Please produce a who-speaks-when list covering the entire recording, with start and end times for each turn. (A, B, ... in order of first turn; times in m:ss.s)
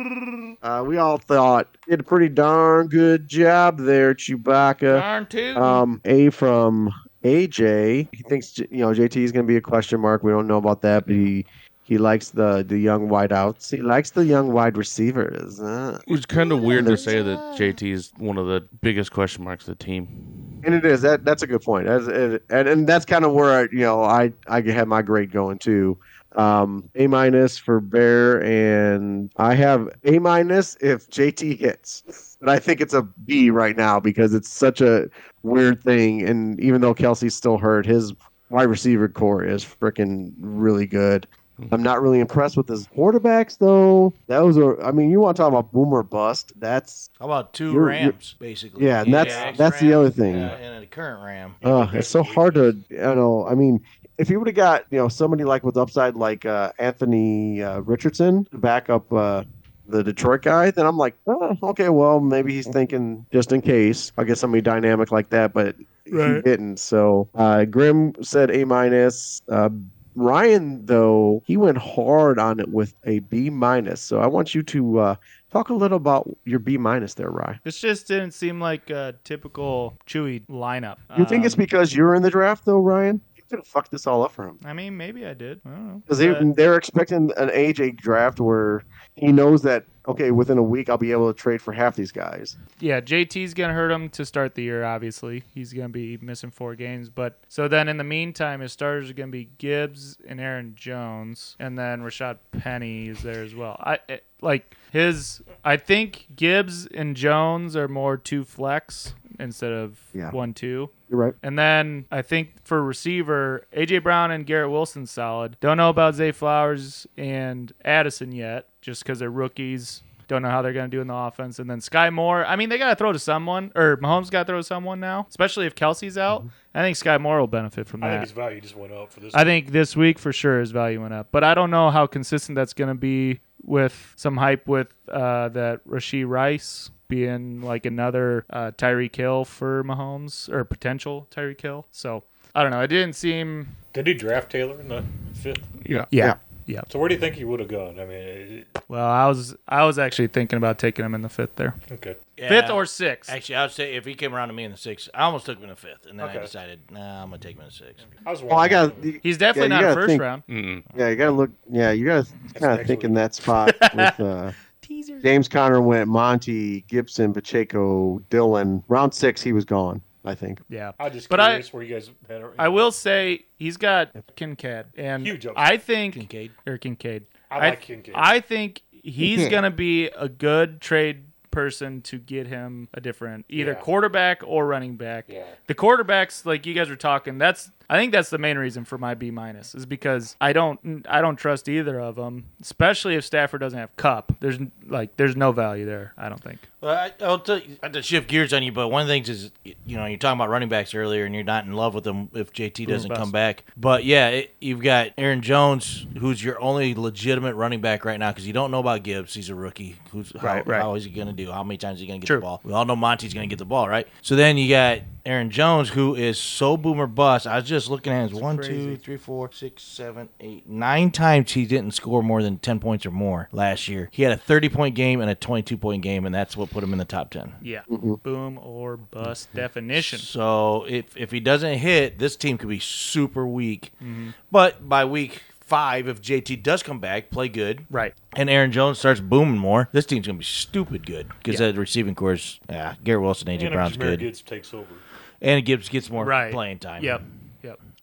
0:00.6-0:16.0 A
0:04.9-0:05.8 B
0:16.1-0:20.5 C
0:16.6-0:17.1 A
0:16.6-0:17.6 D
0:20.6-0:47.1 A
0:47.2-0:51.6 D
0:47.7-0:48.1 A
0:48.8-0:50.6 A
0:49.1-0:49.6 E
0:51.6-0:52.7 E
0:51.6-1:17.6 A
1:06.1-1:06.4 B
1:17.6-1:21.6 B
1:21.1-1:24.6 A
1:24.6-1:26.5 B
1:26.1-1:32.5 A
1:32.8-2:08.3 B
1:51.1-1:51.4 A
2:08.0-2:09.5 E
2:09.3-2:23.7 B
2:23.9-2:25.8 E
2:26.1-2:26.9 B
2:26.9-2:28.8 E
2:28.9-2:31.8 B
2:31.9-2:32.2 E
2:32.4-2:38.0 D
2:32.5-2:33.3 B
2:36.2-2:36.5 E
2:38.2-2:39.1 E
2:38.5-2:40.2 A
2:39.2-2:40.4 B
2:40.5-2:40.8 C
2:40.9-2:44.5 A
2:42.5-2:43.2 E
2:43.7-2:44.1 B
2:44.8-2:45.3 B
2:45.2-2:50.6 A
2:50.7-2:51.6 B
2:51.0-2:52.9 E
2:52.6-3:16.6 B
2:55.2-2:55.7 E
2:56.1-2:56.5 D
2:57.5-2:58.3 E
2:59.2-2:59.6 A
3:03.5-3:03.8 E
3:05.3-3:05.6 E
3:16.8-3:47.6 D
3:22.9-3:23.3 B
3:30.4-3:30.9 B
3:38.4-3:39.0 B
3:47.6-3:50.3 B
3:47.9-3:48.2 A
3:50.0-3:53.9 D
3:54.0-3:54.3 B
3:54.5-4:04.3 D
4:03.5-4:05.0 E
4:05.4-4:07.2 D
4:06.2-4:07.8 B